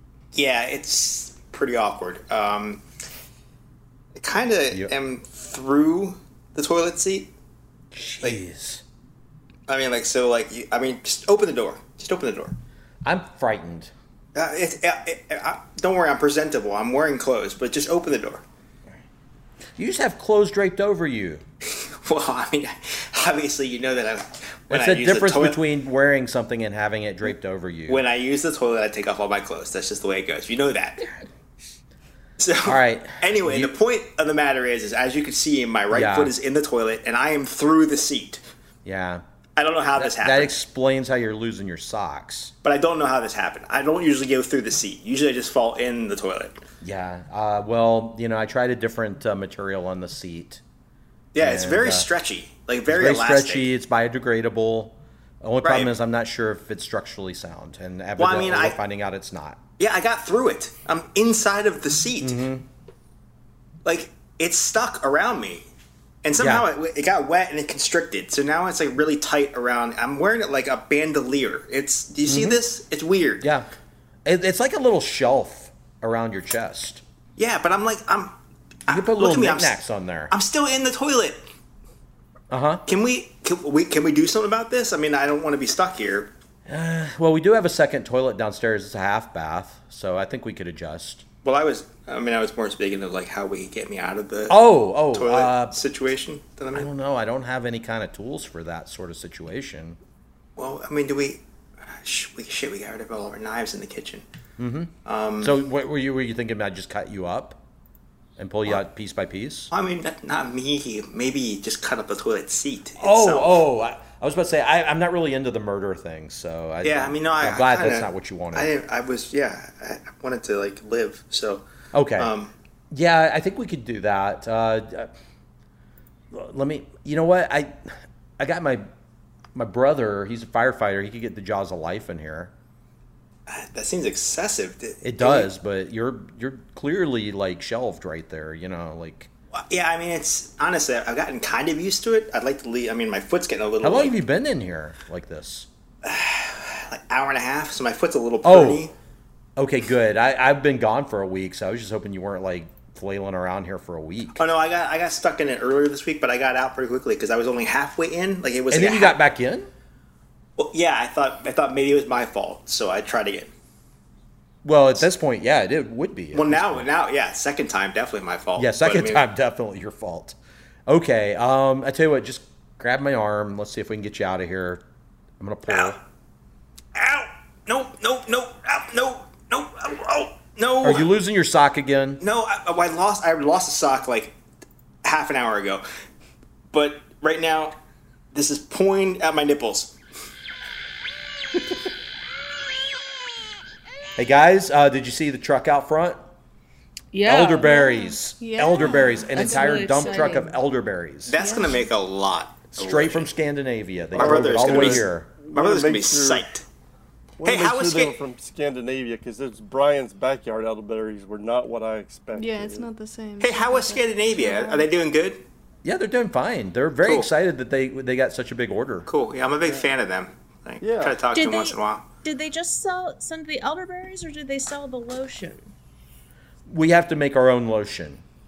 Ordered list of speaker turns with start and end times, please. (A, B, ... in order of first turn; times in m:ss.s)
0:00.3-0:02.8 A
0:04.2-0:07.3 A
0:07.9-0:08.8 B
0:09.7-0:12.6 A
0:13.0-0:13.9 B
0:14.3-0:18.4 A
0:19.8-0:21.4 B
0:21.7-0:25.6 A
0:24.7-0:28.0 B
0:27.9-0:31.1 A
0:32.4-0:38.4 A
0:32.6-0:33.7 B
0:35.9-0:36.3 B
0:38.8-0:39.2 B
0:39.6-0:40.6 A
0:40.0-0:42.5 B
0:42.6-0:46.6 A
0:46.8-0:50.6 B
0:51.3-0:53.7 A
0:51.4-0:52.1 B
0:52.9-0:59.6 B
0:55.6-0:55.9 A
0:58.2-0:58.8 A
0:59.8-1:02.4 A
1:02.2-1:02.6 B
1:03.8-1:05.7 A
1:06.2-1:13.5 A
1:06.3-1:06.7 B
1:12.2-1:12.6 B
1:13.4-1:13.7 B
1:14.2-1:17.0 B
1:17.4-1:18.3 A
1:18.9-1:21.4 A
1:18.9-1:20.3 B
1:22.5-1:22.8 B
1:22.9-1:26.3 A
1:26.7-1:31.2 B
1:31.4-1:36.9 A
1:34.5-1:35.8 B
1:36.7-1:40.0 B
1:40.6-1:44.2 A
1:44.6-1:47.6 B
1:45.0-1:45.5 A
1:48.4-1:49.7 B
1:49.7-1:53.6 A
1:53.0-1:58.7 B
1:56.8-2:01.6 A
2:01.9-2:02.3 B
2:02.2-2:02.5 A
2:02.9-2:05.1 B
2:06.3-2:08.9 B
2:09.5-2:12.5 B
2:13.5-2:15.5 A
2:15.0-2:19.3 B
2:19.5-2:24.1 A
2:23.8-2:25.7 B
2:26.0-2:28.9 A
2:28.4-2:28.9 B
2:29.6-2:34.4 B
2:34.4-2:39.2 A
2:38.7-2:39.7 B
2:40.6-2:43.5 A
2:44.6-2:46.9 B
2:46.3-2:49.2 A
2:48.6-2:54.8 B
2:55.4-2:56.0 B
2:55.7-2:56.0 A
2:56.9-3:01.1 A
3:00.8-3:02.2 B
3:02.2-3:04.3 A
3:05.0-3:05.8 A
3:06.7-3:07.8 A
3:08.3-3:10.0 A
3:14.2-3:16.2 B
3:17.1-3:17.7 C
3:17.2-3:21.6 B
3:17.6-3:20.5 D
3:19.3-3:20.5 C
3:21.2-3:23.4 A
3:21.4-3:21.9 D
3:22.7-3:25.3 B
3:24.1-3:26.4 E
3:24.1-3:26.6 A
3:27.4-3:32.9 E
3:27.4-3:28.2 A
3:32.3-3:34.9 D
3:33.4-3:35.4 A
3:35.8-3:39.1 B
3:37.0-3:37.3 A
3:39.1-3:42.0 A
3:40.8-3:41.2 E
3:41.3-3:45.7 C
3:46.7-3:48.2 B